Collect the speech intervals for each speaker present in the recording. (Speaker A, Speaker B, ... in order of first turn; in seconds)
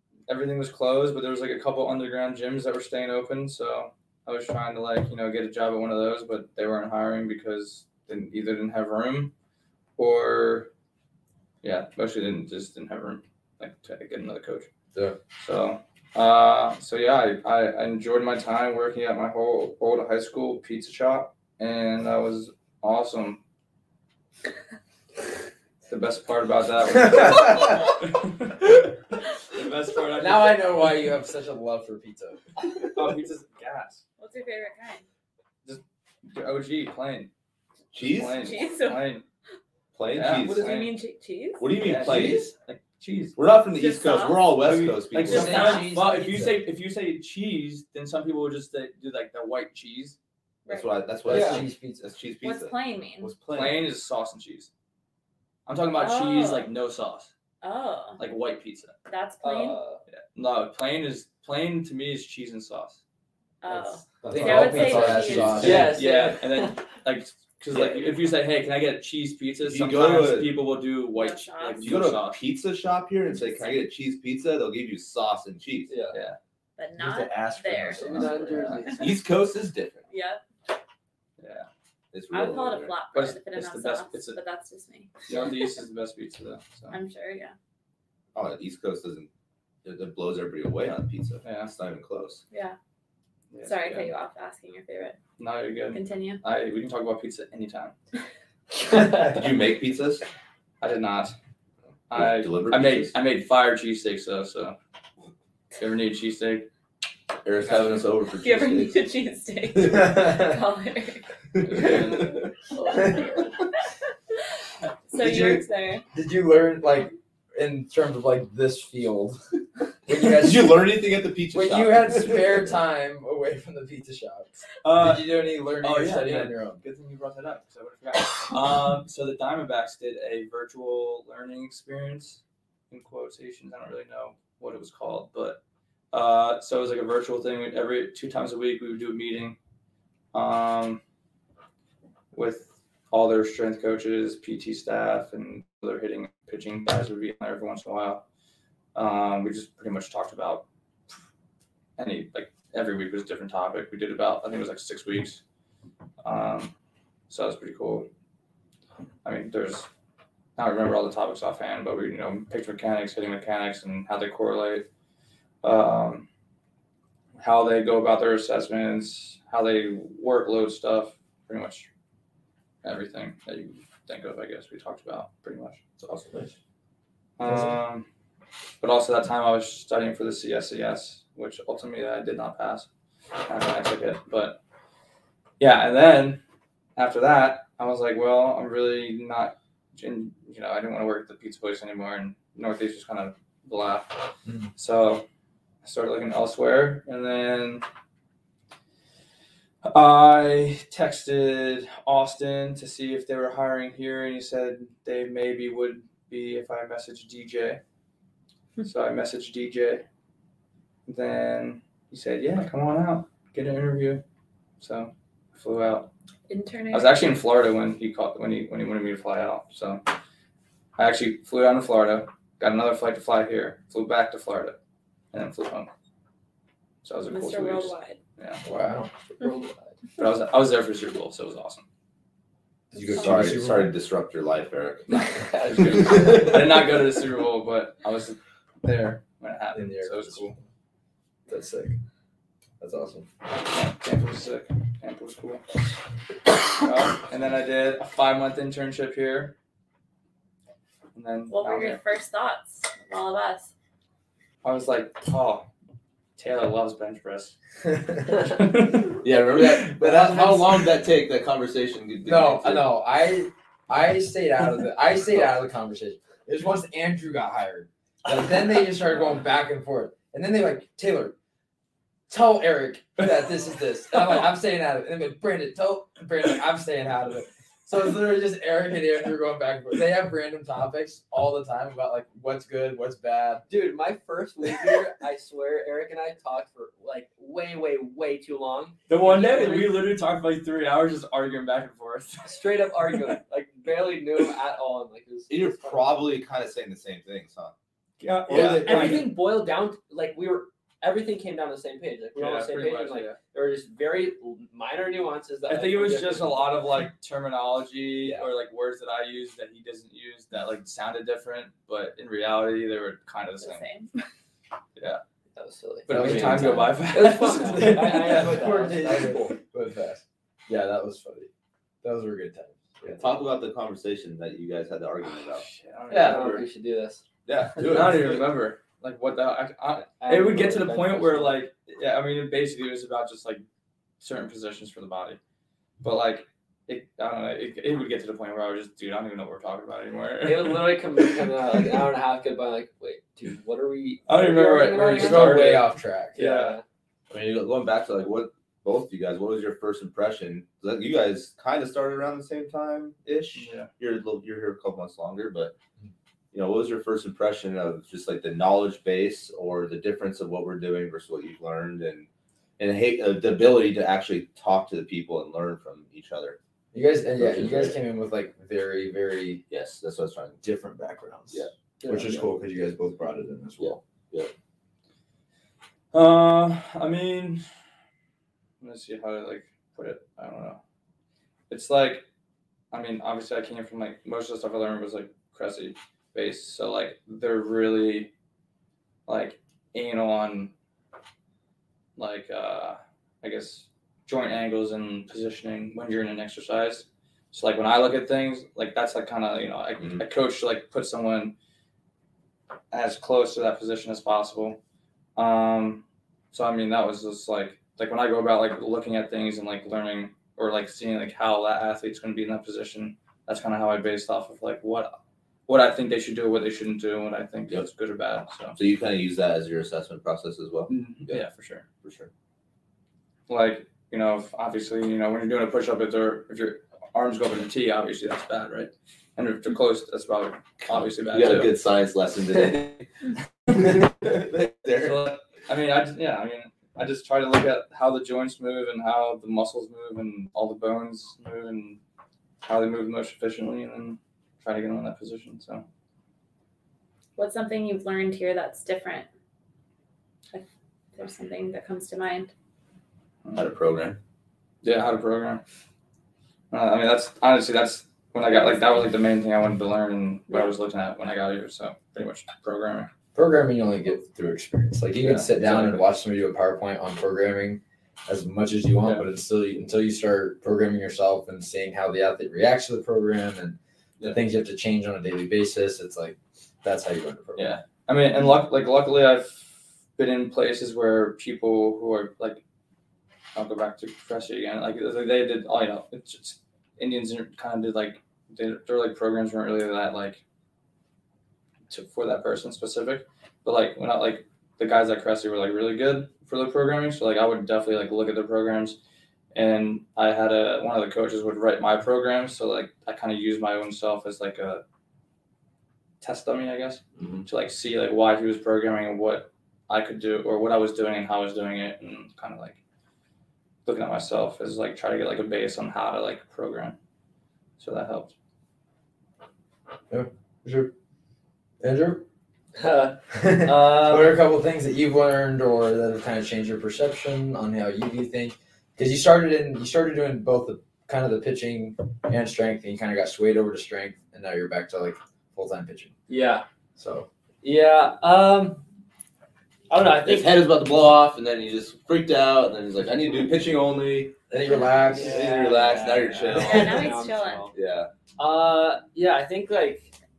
Speaker A: 0.3-9.3, 10.0-10.7, 11.6-14.7, 15.4-23.4, 25.9-28.8, 29.5-30.9, 32.9-34.0, 35.6-37.3, 38.0-39.2, 40.1-41.0, 41.8-43.4, 44.6-50.2, 53.5-54.7, 55.6-57.3, 58.2-58.9, 60.1-63.0, 64.3-72.4, 76.1-76.4, 78.1-78.8, 81.4-81.7, 83.1-84.4, 85.3-87.0, 91.4-91.7, 93.5-94.1, 95.4-97.9, 100.8-101.3, 102.1-104.8, 105.8-106.7, 107.6-108.0, 111.6-112.5, 124.8-135.6, 136.1-139.6, 140.3-141.0, 142.3-148.2, 148.9-150.7, 152.0-155.4, 156.2-156.7, 157.3-158.1, 159.2-159.9, 160.6-164.8, 165.6-166.3, 167.4-171.9, 172.8-176.1, 177.4-178.1, 178.8-182.9, 183.4-184.6, 185.6-186.4, 186.9-195.2, 195.8-197.8, 199.8-207.8, 208.8-210.0, 211.1-214.2, 214.8-216.1, 216.9-220.0, 221.0-224.8, 225.3-225.9, 227.0-228.6, 230.2-231.8, 235.1-240.6, 243.5-245.6, 246.8-249.5, 251.1-252.0, 254.6-255.7, 256.4-257.5, 258.3-259.2, 289.1-292.6, 298.2-299.3, 302.4-303.4, 305.7-313.9, 314.9-315.2, 316.1-318.8, 325.5-326.7, 327.8-333.6, 334.2-335.4, 336.0-341.4, 344.2-346.8, 353.5-353.9, 376.1-377.6, 378.8-380.8, 381.7-382.2, 382.9-388.3, 389.3-390.7, 392.1-401.5, 402.9-404.8, 405.4-415.1, 415.7-418.8, 420.9-421.8, 423.5-431.7, 434.9-442.0, 442.6-445.8, 454.8-455.6, 456.7-463.1, 465.2-466.0, 477.6-482.6, 483.5-490.4, 491.9-499.0, 499.5-504.8, 506.2-512.8, 513.8-517.0, 517.8-518.3, 545.5-546.5
Speaker B: 27.2-27.5, 30.2-32.4, 45.3-46.6, 51.2-52.1, 64.2-66.0, 110.2-110.5, 115.2-119.4, 120.0-120.8, 121.5-126.8, 228.6-229.1, 232.9-233.9, 239.7-240.6, 241.5-242.0, 242.8-243.3, 257.9-258.4, 259.9-260.9, 262.2-271.3, 272.3-283.6, 316.1-317.0, 317.8-321.5, 322.0-323.2, 345.0-346.4, 366.9-369.6, 370.6-374.0, 463.3-477.7, 520.1-520.9, 521.8-522.2, 523.3-536.1, 537.0-537.3, 544.5-545.5
Speaker C: 34.2-35.0, 38.3-39.1, 40.5-41.7, 43.7-44.6, 45.3-45.9, 50.6-50.9, 52.4-53.4, 55.9-56.7, 57.6-58.2, 59.1-59.8, 63.6-65.9, 71.1-72.0, 73.3-73.8, 76.8-79.1, 80.1-80.4, 82.3-85.5, 86.9-87.5, 92.5-92.8, 93.6-95.2, 95.9-96.4, 108.3-112.0, 112.7-113.6, 115.1-116.0, 216.5-217.2, 227.3-228.2, 251.5-253.7, 313.6-314.1, 447.4-449.3, 450.5-452.5, 546.5-547.7
Speaker D: 37.9-38.5, 39.9-40.7, 41.6-42.5, 43.4-45.8, 50.7-53.9, 67.7-68.1, 69.6-70.6, 71.8-75.9, 77.0-78.3, 78.9-80.0, 82.1-82.9, 88.3-89.3, 89.8-92.4, 99.0-100.2, 102.1-103.2, 107.4-109.0, 111.5-112.5, 120.2-122.7, 233.1-235.1, 259.2-262.9, 295.5-297.7, 298.5-299.3, 323.2-325.6, 327.4-328.4, 347.3-355.7, 356.5-366.6, 367.4-368.0, 369.7-370.6, 371.5-372.4, 373.8-374.5, 418.7-421.4, 422.0-422.3, 430.8-433.1, 433.7-435.3, 453.5-454.2, 507.2-507.4, 540.2-544.4, 545.1-547.1, 547.7-548.1
Speaker E: 51.3-51.6, 59.4-60.0, 65.6-66.8, 75.9-76.2, 77.9-79.1, 229.4-229.7, 235.5-236.3, 283.7-290.1, 292.4-296.2, 298.5-306.7, 315.5-319.5, 326.1-327.2, 330.2-331.6, 340.4-346.8, 522.8-524.4, 536.3-536.6, 537.6-538.8, 539.9-540.6, 544.7-547.7, 548.4-550.1